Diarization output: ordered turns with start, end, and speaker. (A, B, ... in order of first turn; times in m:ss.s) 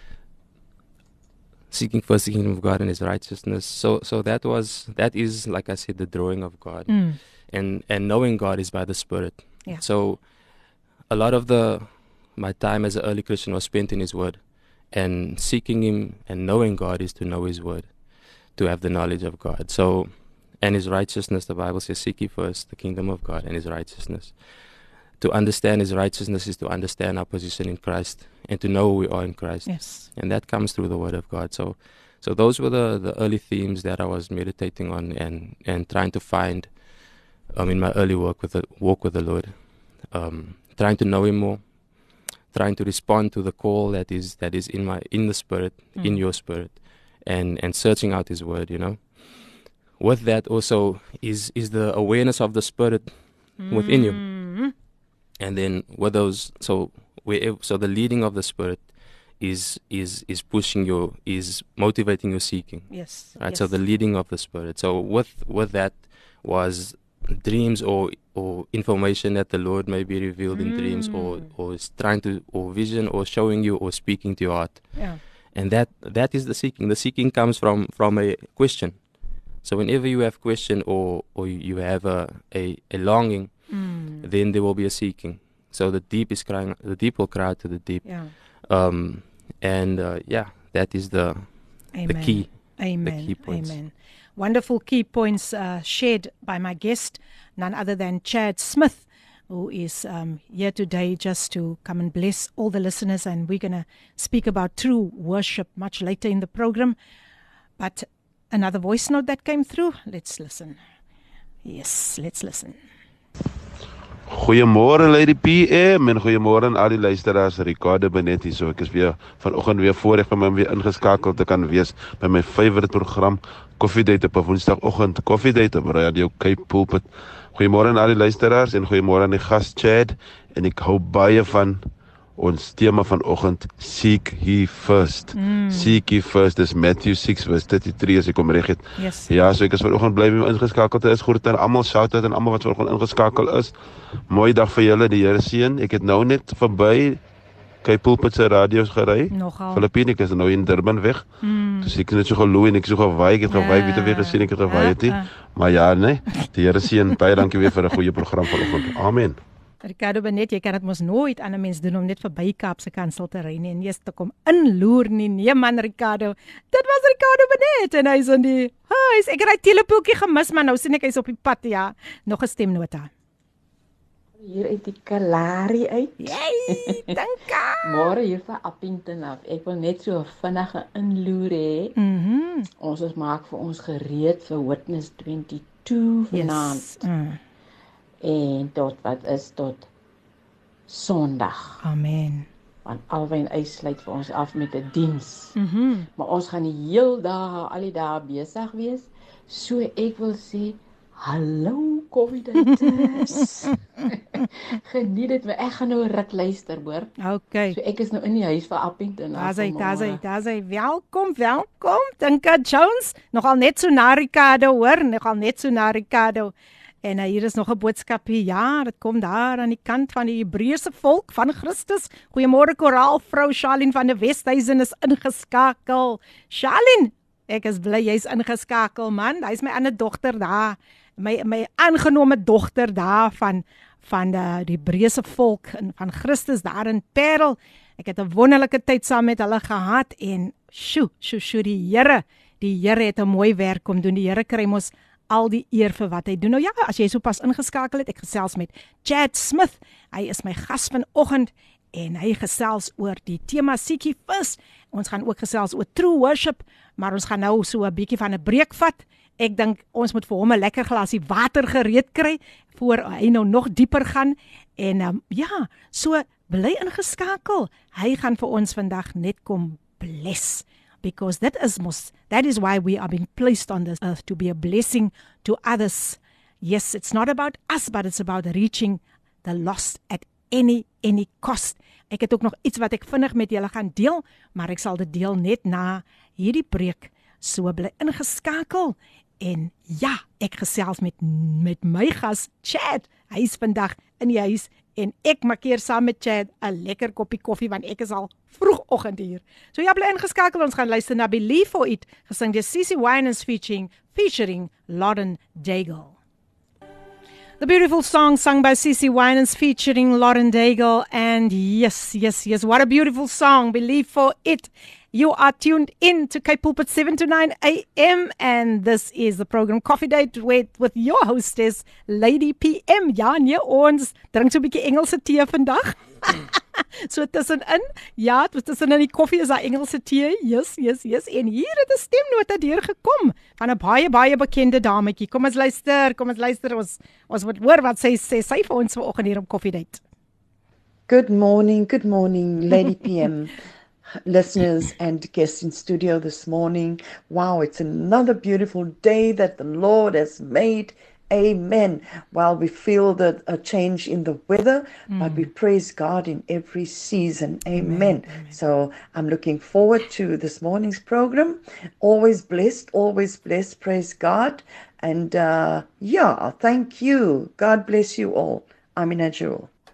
0:01.7-0:10.2 A
0:06.9-0:07.2 B
0:11.1-0:18.0 A
0:18.5-0:24.4 A
0:25.2-0:36.7 A
0:29.6-0:30.1 B
0:37.5-0:54.2 A
0:46.0-0:46.2 B
0:53.6-0:54.7 B
0:55.4-1:19.0 A
1:02.9-1:03.7 B
1:10.5-1:11.4 B
1:19.6-1:33.7 A
1:23.7-1:24.2 B
1:28.0-1:28.3 B
1:31.9-1:47.0 B
1:47.8-1:50.8 B
1:51.6-1:52.7 B
1:54.3-2:11.8 C
2:12.4-2:23.7 C
2:15.3-2:16.0 B
2:19.0-2:19.3 B
2:24.3-2:27.2 C
2:27.8-2:31.3 C
2:29.3-2:29.9 B
2:31.4-2:31.9 B
2:31.8-2:39.4 C
2:33.5-2:35.3 B
2:39.8-2:53.1 B
2:54.4-2:57.1 D
2:56.2-2:57.8 B
2:57.8-3:01.9 D
3:01.9-3:02.7 B
3:02.8-3:07.0 D
3:06.3-3:07.4 B
3:08.2-3:09.8 D
3:10.9-3:11.8 D
3:11.8-3:12.5 B
3:12.8-3:15.5 D
3:15.6-3:16.1 B
3:16.2-3:27.1 D
3:22.8-3:23.4 B
3:27.2-3:27.8 B
3:27.7-3:30.2 D
3:29.3-5:06.1 B
5:07.6-5:40.0 B
5:41.1-5:43.6 E
5:44.2-6:09.7 E
5:55.1-5:55.5 B
5:57.7-5:58.6 B